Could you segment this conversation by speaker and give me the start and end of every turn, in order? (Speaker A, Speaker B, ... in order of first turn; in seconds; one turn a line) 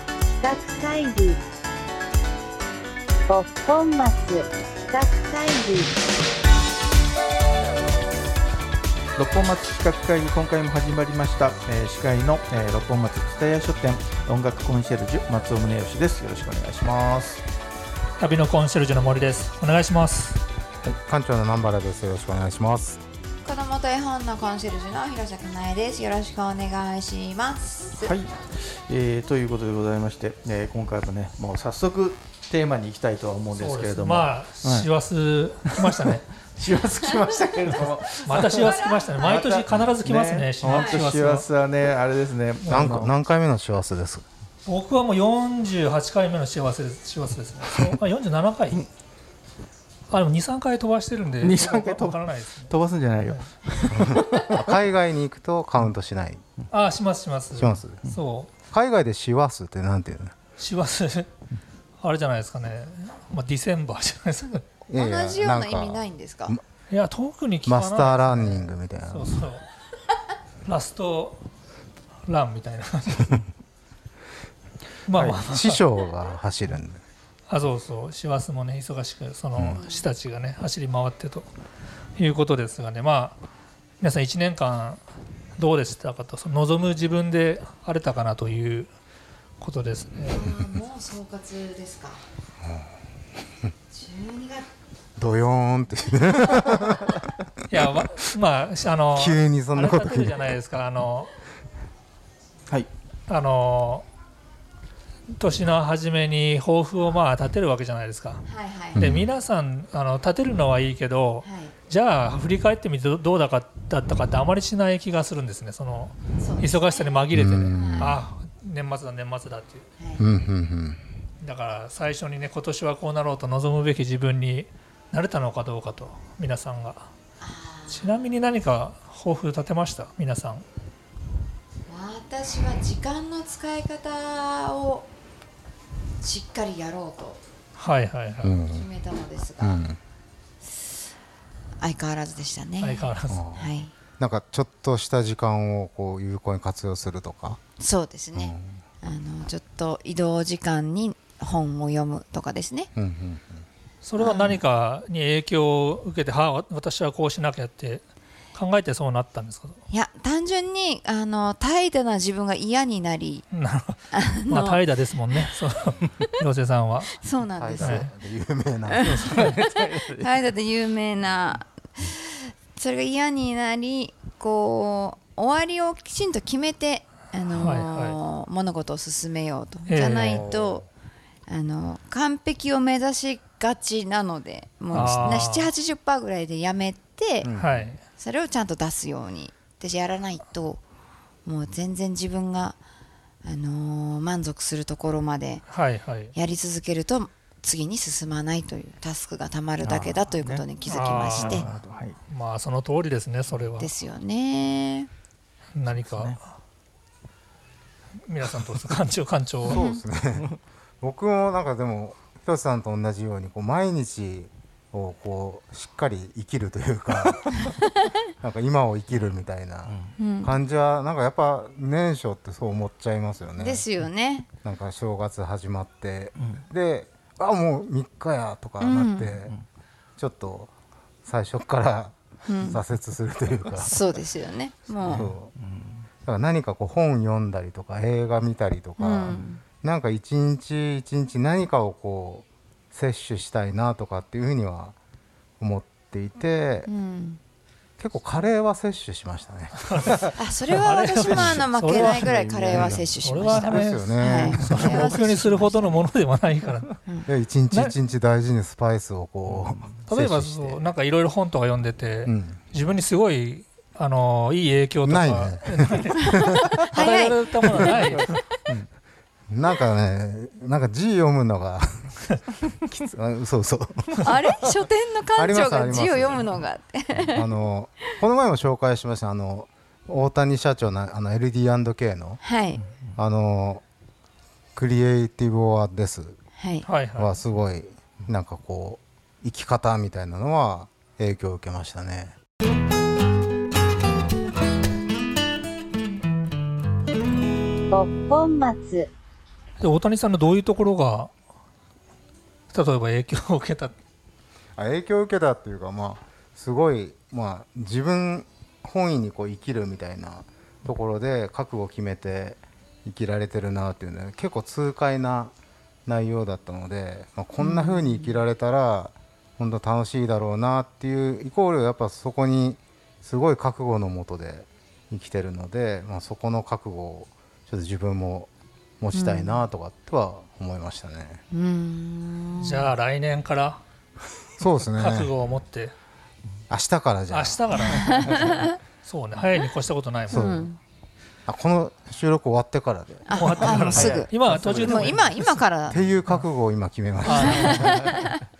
Speaker A: 0.4-1.4
Speaker A: 3.3-5.9
Speaker B: 9.2-17.4
Speaker C: 18.2-20.4
Speaker D: 20.8-23.0
Speaker E: 23.4-28.1
Speaker B: 28.0-34.9
Speaker C: 33.5-36.2
Speaker B: 35.7-43.1
Speaker C: 38.2-41.5
Speaker E: 38.3-39.3
Speaker E: 40.7-41.0
Speaker C: 42.6-43.0
Speaker D: 42.7-44.2
Speaker C: 44.6-48.9
Speaker C: 50.1-53.5
Speaker B: 51.4-54.7
Speaker D: 53.9-56.4
Speaker C: 56.7-58.5
Speaker D: 57.5-58.0
Speaker D: 58.7-60.3
Speaker C: 60.6-61.3
Speaker C: 62.0-64.6
Speaker D: 64.9-66.6
Speaker E: 64.9-66.6
Speaker C: 66.9-69.6
Speaker D: 67.6-69.4
Speaker C: 70.6-71.4
Speaker C: 72.2-73.5
Speaker C: 75.0-75.8
Speaker D: 75.1-77.0
Speaker C: 77.5-81.5
Speaker D: 79.5-79.8
Speaker C: 82.2-83.4
Speaker C: 84.0-85.0
Speaker C: 85.6-88.9
Speaker C: 89.6-90.5
Speaker E: 90.3-92.2
Speaker D: 92.6-92.9
Speaker E: 93.9-94.7
Speaker D: 95.2-97.2
Speaker C: 97.7-101.3
Speaker D: 99.1-100.5
Speaker C: 103.3-104.0
Speaker C: 105.3-108.4
Speaker E: 108.5-109.1
Speaker D: 108.9-109.3
Speaker C: 109.0-119.8
Speaker E: 111.4-111.7
Speaker E: 116.4-118.2
Speaker D: 117.3-118.2
Speaker E: 120.0-120.2
Speaker D: 120.2-121.1
Speaker C: 121.4-127.1
Speaker E: 127.4-128.2
Speaker C: 127.9-130.6
Speaker E: 131.9-135.1
Speaker E: 136.2-137.4
Speaker C: 137.8-138.6
Speaker D: 138.4-138.9
Speaker E: 138.6-139.8
Speaker D: 139.6-140.0
Speaker E: 141.8-143.9
Speaker C: 142.8-143.4
Speaker D: 143.3-147.6
Speaker E: 147.8-152.9
Speaker D: 148.3-148.8
Speaker D: 152.9-153.7
Speaker C: 154.0-158.0
Speaker E: 154.2-154.6
Speaker C: 158.5-159.8
Speaker E: 159.9-163.4
Speaker C: 163.5-167.2
Speaker E: 164.1-164.8
Speaker E: 167.2-168.1
Speaker D: 167.5-169.3
Speaker C: 167.8-168.1
Speaker E: 168.9-180.8
Speaker C: 169.1-169.4
Speaker B: 169.1-170.3
Speaker C: 177.5-178.2
Speaker C: 179.9-180.4
Speaker D: 180.2-180.8
Speaker E: 181.5-187.5
Speaker C: 184.9-185.7
Speaker D: 184.9-185.4
Speaker D: 187.4-187.9
Speaker C: 187.6-188.0
Speaker E: 188.2-190.8
Speaker E: 191.4-192.8
Speaker E: 193.4-195.6
Speaker C: 195.7-196.3
Speaker E: 196.3-201.7
Speaker B: 199.8-200.7
Speaker C: 200.9-203.9
Speaker B: 201.3-202.2
Speaker E: 203.8-205.1
Speaker C: 205.7-206.4
Speaker B: 205.8-206.4
Speaker C: 208.2-209.8
Speaker D: 209.7-210.5
Speaker B: 209.7-210.6
Speaker D: 211.0-217.5
Speaker D: 218.4-223.8
Speaker B: 219.8-220.2
Speaker E: 220.2-220.6
Speaker E: 223.6-224.5
Speaker D: 224.6-229.5
Speaker B: 226.4-226.6
Speaker E: 228.8-229.3
Speaker D: 230.2-230.7
Speaker D: 231.2-234.0
Speaker E: 232.4-232.8
Speaker E: 233.8-235.3
Speaker D: 235.0-235.5
Speaker B: 235.0-236.1
Speaker D: 236.2-244.9
Speaker E: 239.0-239.6
Speaker D: 245.6-246.9
Speaker E: 246.8-247.4
Speaker D: 248.0-250.2
Speaker E: 250.3-256.1
Speaker C: 250.8-252.3
Speaker B: 251.3-253.0
Speaker D: 252.7-255.1
Speaker C: 253.2-256.9
Speaker D: 257.3-260.9
Speaker C: 257.7-257.9
Speaker B: 259.4-260.0
Speaker C: 260.1-268.4
Speaker D: 262.2-262.6
Speaker D: 265.0-266.7
Speaker E: 266.2-268.3
Speaker D: 269.5-272.2
Speaker D: 272.8-274.4
Speaker E: 274.2-277.5
Speaker D: 275.3-276.5
Speaker D: 277.3-282.4
Speaker E: 282.4-282.8
Speaker D: 283.1-283.8
Speaker D: 284.7-286.4
Speaker E: 286.6-286.9
Speaker C: 286.9-287.4
Speaker D: 287.1-292.3
Speaker A: 297.9-299.1
Speaker C: 299.8-301.3
Speaker C: 302.7-303.9
Speaker D: 304.8-315.5
Speaker D: 316.1-331.4
Speaker E: 317.6-318.4
Speaker E: 329.1-329.6
Speaker E: 331.5-332.9
Speaker C: 332.6-333.8
Speaker D: 334.6-335.3
Speaker C: 334.8-335.9
Speaker D: 336.7-338.0
Speaker C: 337.3-340.4
Speaker E: 337.9-338.8
Speaker B: 338.1-338.4
Speaker D: 340.3-340.7
Speaker E: 340.3-340.8
Speaker D: 341.5-344.2
Speaker E: 343.2-346.0
Speaker C: 343.3-345.3
Speaker B: 343.8-346.0
Speaker D: 345.9-348.0
Speaker C: 347.2-348.0
Speaker E: 347.3-348.4
Speaker B: 347.7-348.1